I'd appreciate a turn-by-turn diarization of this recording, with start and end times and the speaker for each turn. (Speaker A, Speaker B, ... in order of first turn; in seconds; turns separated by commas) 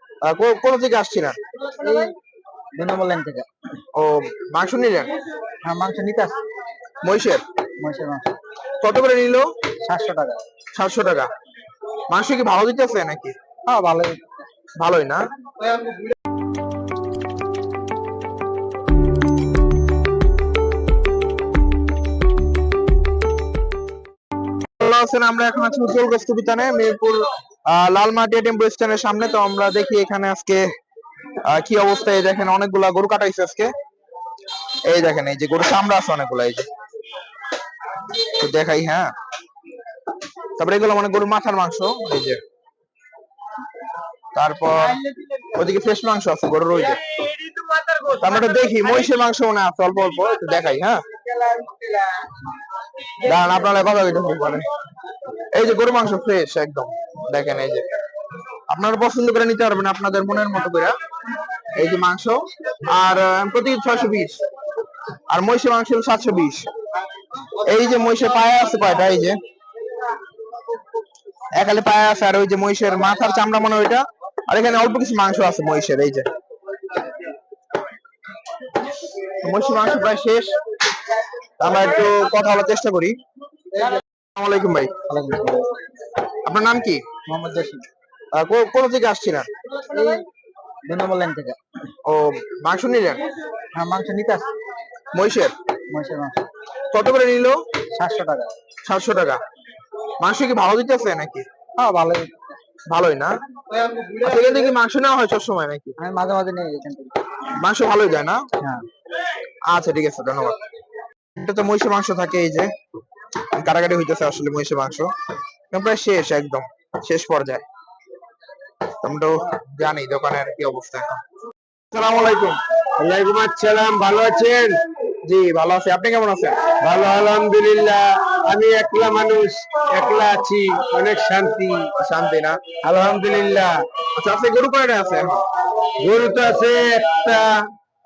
Speaker A: 0.2-1.4, Speaker B: 1.7-2.1, Speaker B: 2.7-3.5, Speaker A: 4.0-5.1, Speaker B: 5.6-6.4, Speaker A: 7.0-7.4, Speaker B: 7.8-8.2, Speaker A: 8.8-9.5, Speaker B: 9.8-10.4, Speaker A: 10.7-11.3, Speaker A: 12.1-13.3, Speaker B: 13.7-14.2, Speaker A: 14.8-15.2, Speaker A: 24.8-30.7, Speaker A: 31.4-33.7, Speaker A: 34.9-36.7, Speaker A: 38.1-39.1, Speaker A: 40.6-42.4, Speaker A: 44.3-47.0, Speaker C: 47.6-48.1, Speaker A: 48.2-51.0, Speaker A: 53.2-54.7, Speaker A: 55.5-57.9, Speaker A: 58.7-60.9, Speaker A: 61.7-64.4, Speaker A: 65.3-66.7, Speaker A: 67.6-69.4, Speaker A: 71.5-76.3, Speaker A: 79.4-80.5, Speaker A: 81.6-83.2, Speaker A: 84.3-84.9, Speaker B: 85.1-85.7, Speaker A: 86.4-87.0, Speaker B: 87.3-87.8, Speaker A: 88.3-89.5, Speaker B: 89.9-90.2, Speaker B: 90.8-91.6, Speaker A: 92.0-93.2, Speaker B: 93.7-94.5, Speaker A: 95.1-95.5, Speaker B: 95.9-96.4, Speaker A: 96.9-97.6, Speaker B: 98.0-98.5, Speaker A: 98.8-99.4, Speaker A: 100.2-101.5, Speaker B: 101.8-102.4, Speaker A: 102.9-103.3, Speaker A: 104.1-106.0, Speaker B: 106.0-107.1, Speaker A: 107.6-108.4, Speaker A: 109.7-110.6, Speaker A: 111.4-112.7, Speaker A: 113.5-115.1, Speaker A: 115.7-117.6, Speaker A: 119.0-121.2, Speaker A: 121.9-122.6, Speaker C: 123.0-124.8, Speaker A: 125.2-126.6, Speaker C: 126.8-131.9, Speaker A: 132.0-132.6, Speaker C: 132.8-133.7, Speaker A: 134.1-135.4, Speaker C: 136.0-137.5